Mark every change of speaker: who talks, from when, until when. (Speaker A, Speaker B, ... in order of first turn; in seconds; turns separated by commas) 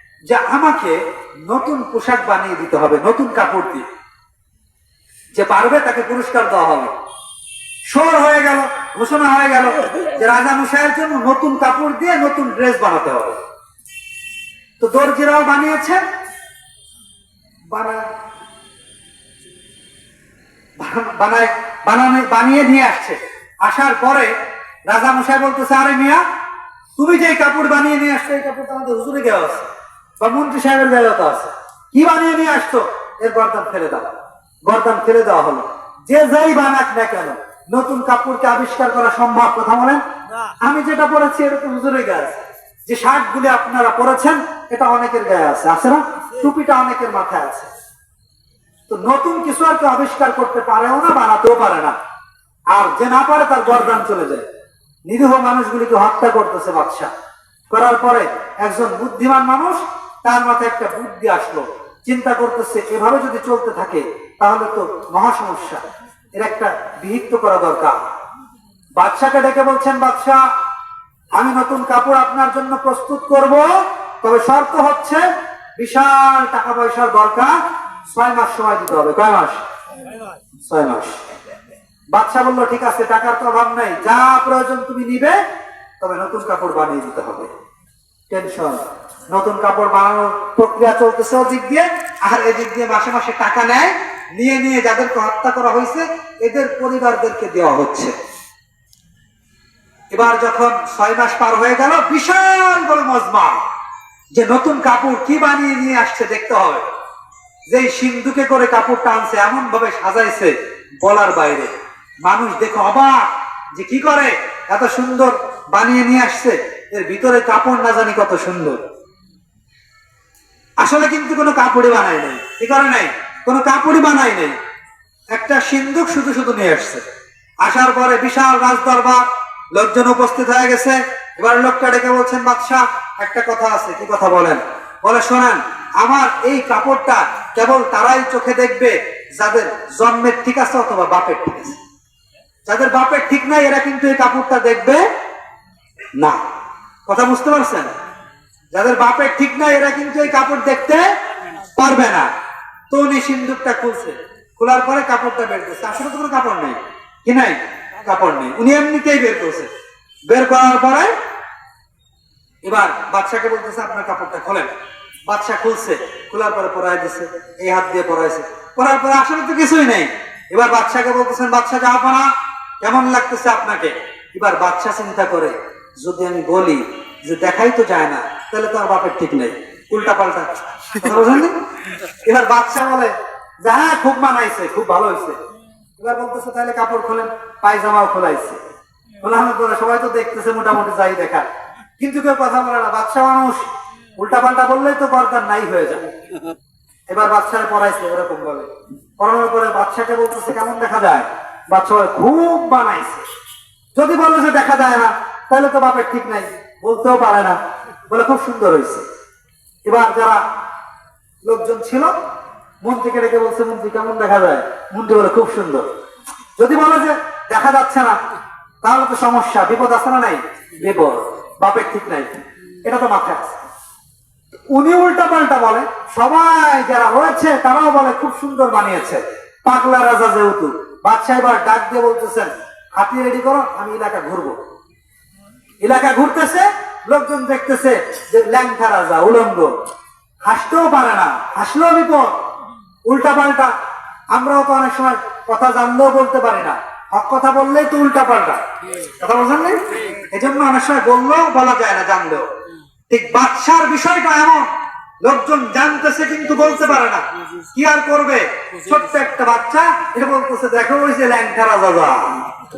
Speaker A: 0.3-3.8, Speaker A: 5.3-6.9, Speaker A: 7.9-13.4, Speaker A: 14.8-16.0, Speaker A: 17.7-18.0, Speaker A: 20.8-24.3, Speaker A: 24.9-26.2, Speaker A: 27.0-29.7, Speaker A: 30.2-34.1, Speaker A: 34.6-40.0, Speaker A: 40.6-47.7, Speaker A: 48.9-51.9, Speaker A: 52.7-54.5, Speaker A: 55.0-57.1, Speaker A: 57.7-65.8, Speaker A: 66.4-68.0, Speaker A: 69.0-70.4, Speaker A: 71.3-73.7, Speaker A: 74.2-75.2, Speaker A: 75.8-77.5, Speaker A: 78.1-79.6, Speaker A: 80.6-81.3, Speaker A: 82.1-85.4, Speaker A: 86.0-87.5, Speaker A: 88.3-98.1, Speaker A: 100.1-103.6, Speaker A: 104.3-106.9, Speaker A: 107.7-111.7, Speaker A: 112.2-118.8, Speaker A: 120.8-124.6, Speaker A: 125.3-127.0, Speaker A: 127.6-129.2, Speaker A: 129.7-141.8, Speaker A: 142.7-145.0, Speaker A: 146.2-146.4, Speaker A: 147.1-147.9, Speaker A: 148.7-151.0, Speaker A: 151.7-152.3, Speaker A: 152.9-159.7, Speaker A: 160.3-161.1, Speaker A: 162.6-164.7, Speaker A: 165.3-172.3, Speaker A: 172.8-181.6, Speaker A: 182.1-185.4, Speaker A: 186.0-188.6, Speaker A: 189.2-191.5, Speaker A: 192.0-196.1, Speaker A: 197.1-203.2, Speaker A: 203.9-207.6, Speaker A: 208.1-209.0, Speaker A: 209.8-210.4, Speaker A: 211.5-212.1, Speaker A: 212.8-215.9, Speaker A: 216.6-218.2, Speaker A: 218.8-223.6, Speaker A: 224.7-234.6, Speaker A: 235.8-239.7, Speaker A: 240.4-242.3, Speaker A: 243.1-243.7, Speaker A: 244.3-252.5, Speaker A: 253.1-254.7, Speaker A: 255.2-262.5